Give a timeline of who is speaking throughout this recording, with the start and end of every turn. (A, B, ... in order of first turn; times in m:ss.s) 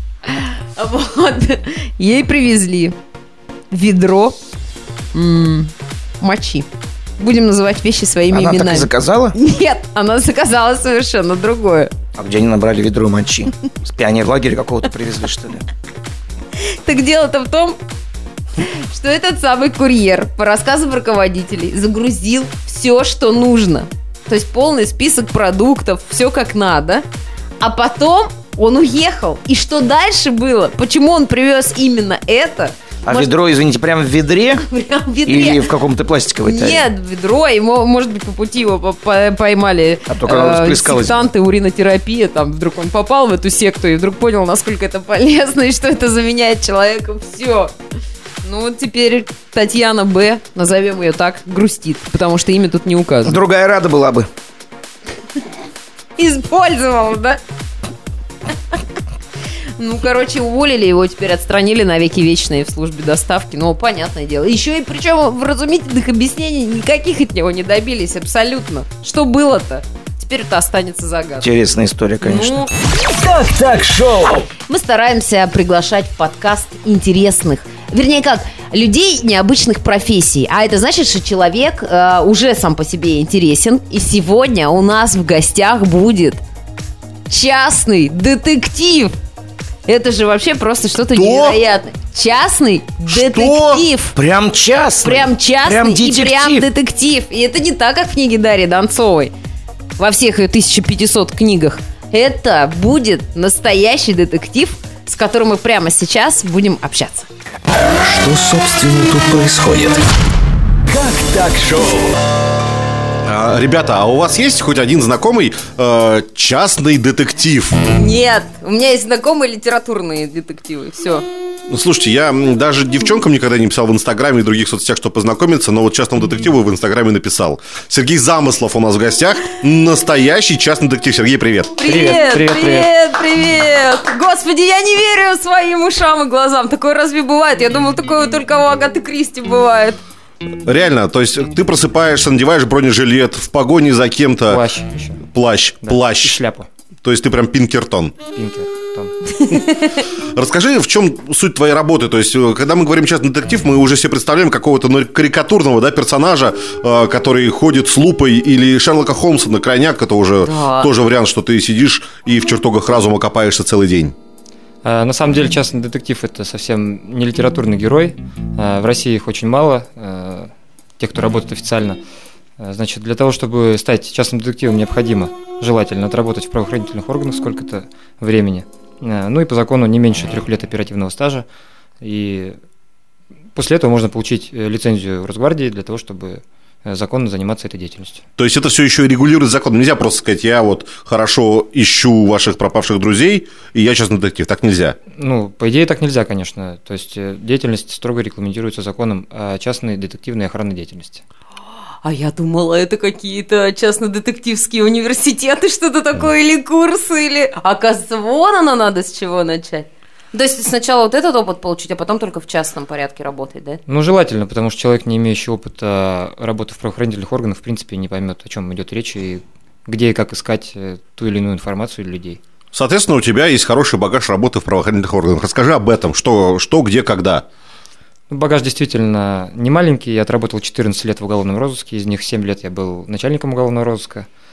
0:00.2-0:02.9 A
0:03.7-0:04.4 A
0:05.1-0:06.6 A
0:07.2-0:11.9 A
0:08.3-0:09.4 B
0:12.2-0:15.7 B
0:16.6-0:17.8 A
0:18.6-0:27.0 A
0:27.6-0:33.3 A
0:33.0-0:34.6 B
0:34.6-0:35.6 A
0:35.2-0:36.9 B
0:36.4-0:47.7 A
0:40.1-0:41.3 B
0:48.4-0:53.4 A
0:53.2-0:54.3 B
0:56.2-0:57.4 A
0:59.8-1:11.5 A
1:11.4-1:12.6 B
1:12.2-1:12.7 A
1:13.0-1:14.5 C
1:14.7-1:26.4 A
1:27.3-1:29.1 A
1:29.8-1:34.2 A
1:31.1-1:31.6 D
1:33.1-1:33.8 D
1:34.1-1:36.7 B
1:35.0-1:39.3 A
1:40.0-1:47.3 A
1:48.0-1:50.0 B
1:50.9-1:52.2 C
1:53.2-1:57.8 D
1:57.9-2:01.2 A
2:01.7-2:11.7 D
2:11.8-2:20.0 A
2:11.8-2:12.9 E
2:20.6-2:24.6 D
2:24.5-2:25.2 E
2:25.3-2:26.4 D
2:25.8-2:26.7 E
2:27.0-2:28.2 D
2:28.3-2:29.2 E
2:29.6-2:29.8 A
2:30.2-2:44.1 D
2:40.4-2:40.9 A
2:44.8-2:52.0 E
2:52.6-3:01.4 E
3:02.0-3:02.6 E
3:03.5-3:08.2 E
3:08.4-3:15.0 D
3:15.1-3:21.2 E
3:22.0-3:33.8 A
3:33.9-3:42.4 E
3:42.7-3:47.4 D
3:48.3-3:54.3 E